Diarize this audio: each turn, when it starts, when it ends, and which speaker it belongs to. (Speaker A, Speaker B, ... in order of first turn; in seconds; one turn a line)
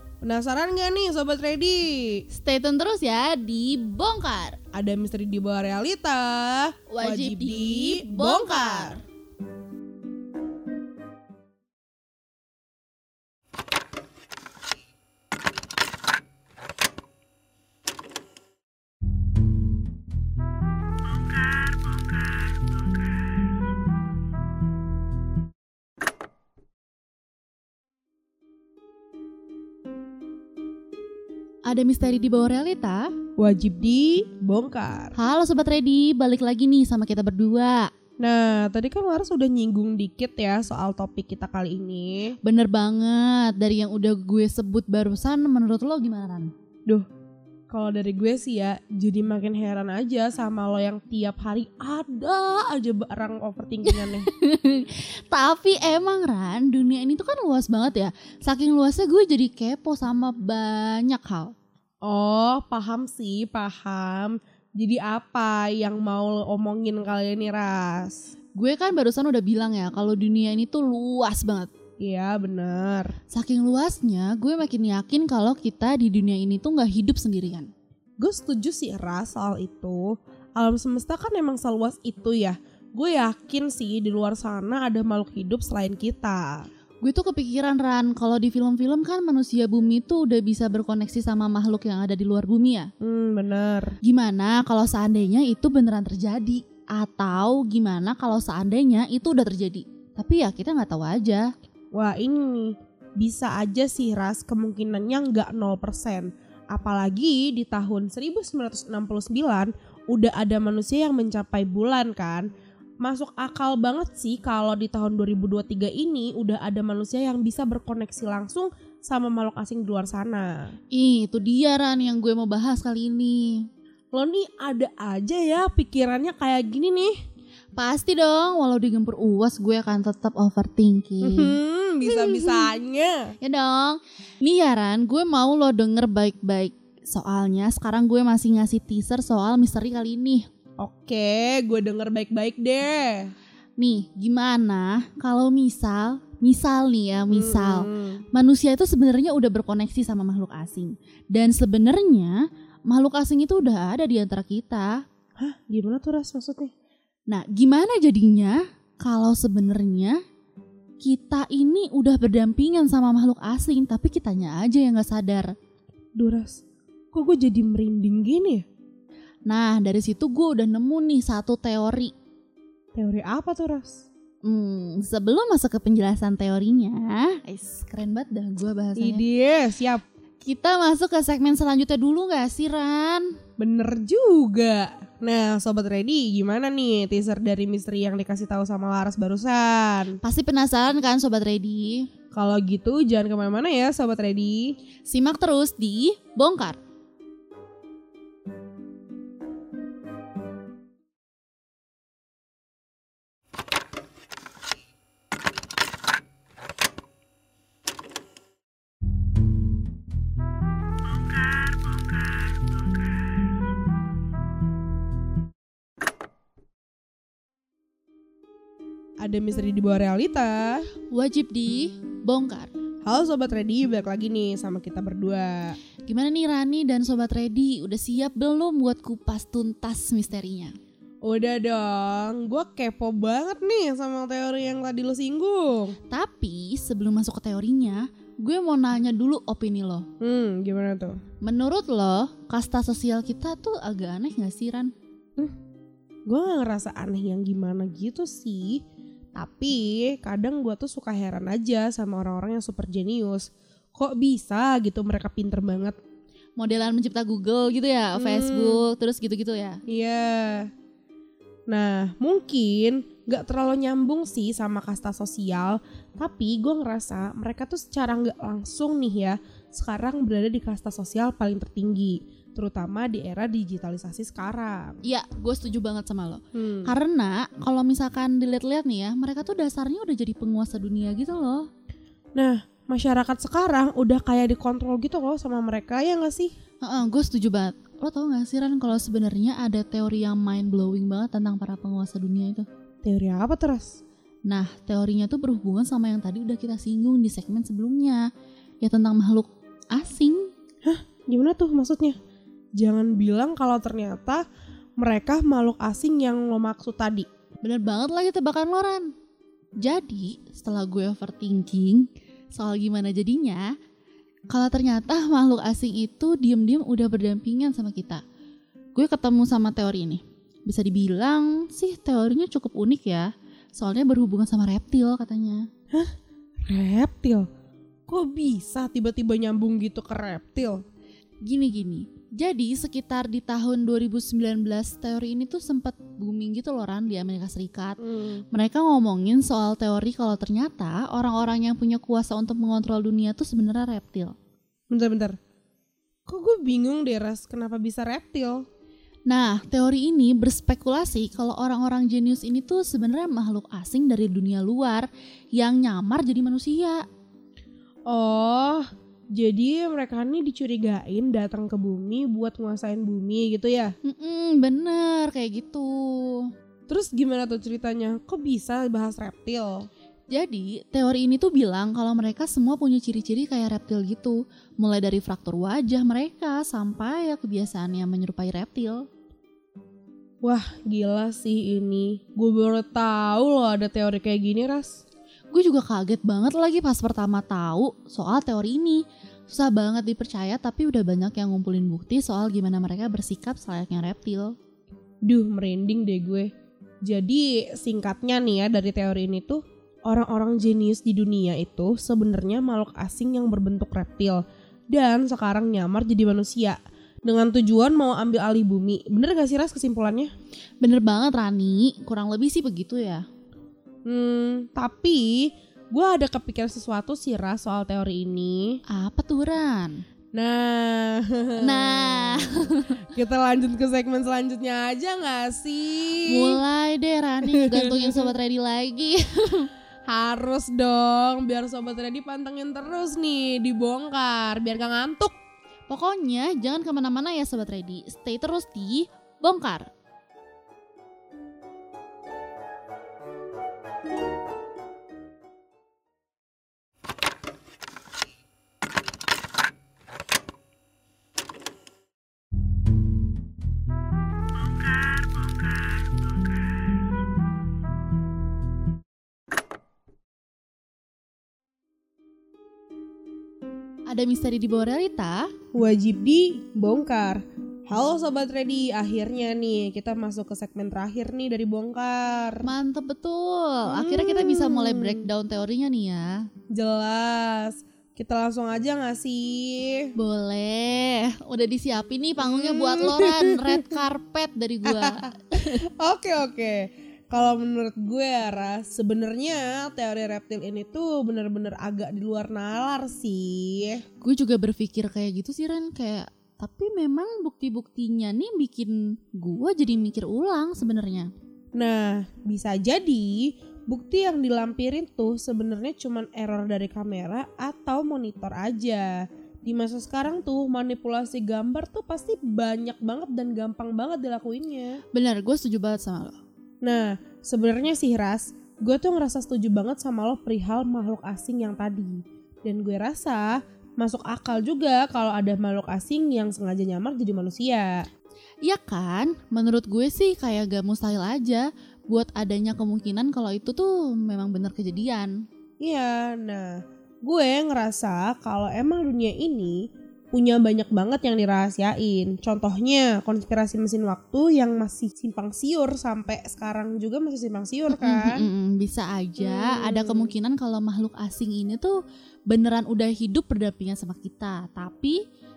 Speaker A: 0.2-2.2
Speaker B: 2.3-4.6
Speaker A: 4.7-9.0
Speaker B: 6.9-9.0
Speaker B: 31.7-33.1
Speaker A: 33.4-35.1
Speaker B: 35.2-37.9
Speaker A: 38.2-42.4
Speaker B: 42.4-46.5
Speaker A: 47.7-54.3
Speaker B: 53.9-61.5
Speaker A: 62.0-68.3
Speaker B: 68.5-71.7
Speaker A: 72.0-73.2
Speaker B: 73.3-77.7
Speaker A: 78.2-86.7
Speaker B: 87.0-92.9
Speaker A: 93.0-94.0
Speaker B: 94.0-101.5
Speaker A: 101.9-112.5
Speaker A: 113.0-120.7
Speaker B: 120.9-123.7
Speaker A: 124.1-127.2
Speaker B: 127.8-132.7
Speaker A: 131.2-133.3
Speaker B: 133.4-140.4
Speaker A: 140.8-143.3
Speaker B: 143.8-154.9
Speaker A: 147.3-148.2
Speaker A: 155.4-156.7
Speaker B: 157.3-160.2
Speaker B: 161.0-165.5
Speaker A: 166.2-166.6
Speaker A: 167.1-168.6
Speaker B: 169.5-172.1
Speaker A: 172.9-174.1
Speaker B: 174.4-179.2
Speaker A: 179.0-180.0
Speaker B: 180.4-183.3
Speaker A: 183.6-190.2
Speaker B: 190.2-192.1
Speaker A: 192.3-194.8
Speaker B: 195.1-196.8
Speaker A: 219.2-220.9
Speaker B: 221.1-222.7
Speaker A: 223.0-225.8
Speaker B: 226.1-230.7
Speaker A: 231.2-236.0
Speaker B: 236.1-240.1
Speaker A: 240.2-241.2
Speaker B: 241.4-244.9
Speaker A: 246.3-248.8
Speaker A: 249.3-256.0
Speaker B: 256.6-259.8
Speaker A: 258.2-258.9
Speaker A: 259.9-260.7
Speaker A: 261.7-275.0
Speaker B: 275.0-281.7
Speaker A: 276.6-276.9
Speaker A: 282.4-286.5
Speaker B: 286.8-292.7
Speaker A: 293.0-294.0
Speaker B: 294.5-298.2
Speaker B: 298.8-300.5
Speaker A: 300.9-302.2
Speaker A: 302.8-304.4
Speaker A: 305.0-307.3
Speaker B: 307.6-309.1
Speaker B: 309.8-313.7
Speaker B: 314.5-318.2
Speaker B: 318.9-325.7
Speaker A: 326.7-327.5
Speaker A: 328.1-330.8
Speaker B: 331.4-338.0
Speaker A: 338.0-338.4
Speaker B: 338.5-344.4
Speaker A: 344.9-345.4
Speaker A: 346.3-348.6
Speaker B: 349.3-357.0
Speaker A: 358.1-363.9
Speaker B: 364.1-366.5
Speaker A: 366.9-369.9
Speaker B: 370.3-379.1
Speaker A: 380.4-385.0
Speaker B: 385.5-394.6
Speaker A: 395.2-396.5
Speaker A: 397.0-410.3
Speaker B: 410.8-413.2
Speaker A: 414.1-418.8
Speaker B: 418.9-420.0
Speaker A: 420.3-426.6
Speaker B: 421.6-423.0
Speaker B: 426.3-429.7
Speaker A: 427.5-428.3
Speaker A: 430.1-435.4
Speaker B: 435.9-439.9
Speaker B: 455.1-455.8
Speaker B: 464.1-465.5
Speaker A: 465.7-472.7
Speaker B: 472.6-476.5
Speaker A: 473.9-475.3
Speaker A: 476.7-480.1
Speaker B: 480.2-485.8
Speaker A: 482.4-484.0
Speaker A: 484.9-494.0
Speaker B: 494.2-501.3
Speaker A: 501.7-515.0
Speaker B: 515.1-516.4
Speaker A: 516.8-528.1
Speaker B: 528.6-535.5
Speaker A: 535.8-548.5
Speaker B: 547.9-555.2
Speaker A: 549.4-550.3